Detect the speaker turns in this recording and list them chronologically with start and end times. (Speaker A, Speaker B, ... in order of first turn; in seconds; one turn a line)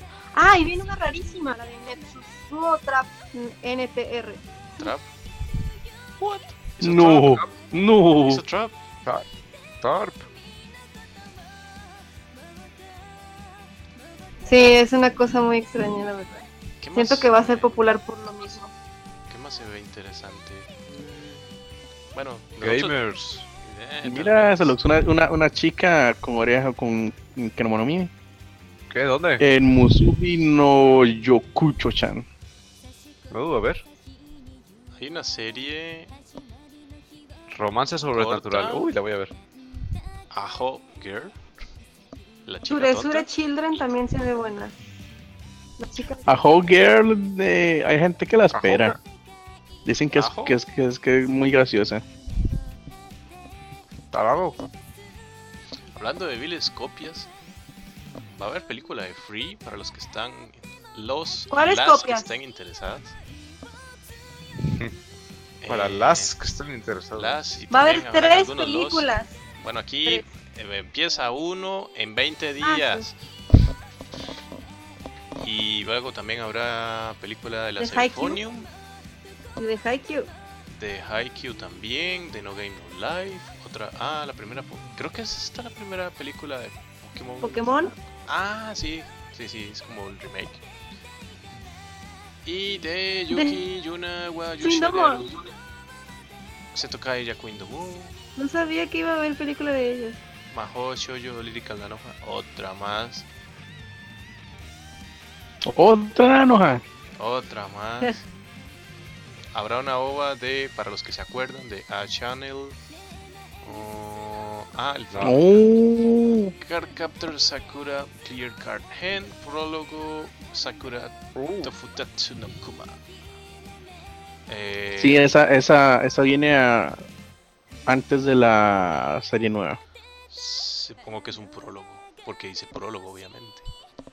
Speaker A: 0.3-4.9
Speaker B: 4.8-5.1
Speaker B: 6.2-7.5
Speaker C: 6.8-8.4
Speaker B: 8.2-8.7
Speaker D: 9.8-10.3
Speaker A: 14.5-18.7
Speaker B: 16.8-17.8
Speaker B: 19.3-21.5
Speaker B: 22.1-23.0
Speaker D: 22.6-23.5
Speaker B: 23.6-24.8
Speaker C: 24.0-28.1
Speaker D: 28.9-29.4
Speaker C: 29.4-32.2
Speaker D: 33.3-33.8
Speaker B: 35.0-36.1
Speaker D: 37.5-39.3
Speaker B: 38.1-38.9
Speaker B: 40.3-41.4
Speaker B: 42.5-43.3
Speaker A: 42.7-44.7
Speaker A: 45.8-46.3
Speaker C: 46.3-49.0
Speaker D: 48.5-49.0
Speaker C: 49.9-52.0
Speaker B: 50.1-50.6
Speaker D: 54.1-54.7
Speaker B: 55.9-57.3
Speaker B: 58.3-63.1
Speaker A: 61.5-62.3
Speaker D: 64.7-64.9
Speaker B: 65.6-66.3
Speaker D: 65.7-67.4
Speaker B: 67.2-69.1
Speaker A: 67.7-69.3
Speaker B: 69.6-73.2
Speaker A: 72.6-73.0
Speaker B: 75.4-78.7
Speaker A: 77.8-78.4
Speaker A: 79.6-80.3
Speaker B: 80.8-90.6
Speaker A: 87.4-87.9
Speaker B: 92.5-95.5
Speaker A: 93.3-93.6
Speaker A: 94.6-95.2
Speaker B: 96.7-98.2
Speaker A: 98.4-100.2
Speaker B: 100.5-103.3
Speaker C: 105.7-106.8
Speaker B: 107.2-108.2
Speaker B: 109.5-112.8
Speaker B: 113.6-115.6
Speaker D: 115.1-115.4
Speaker C: 115.2-116.5
Speaker B: 116.6-123.0
Speaker D: 121.3-121.7
Speaker B: 124.5-125.2
Speaker C: 125.0-127.0
Speaker C: 127.9-129.8
Speaker B: 130.3-133.7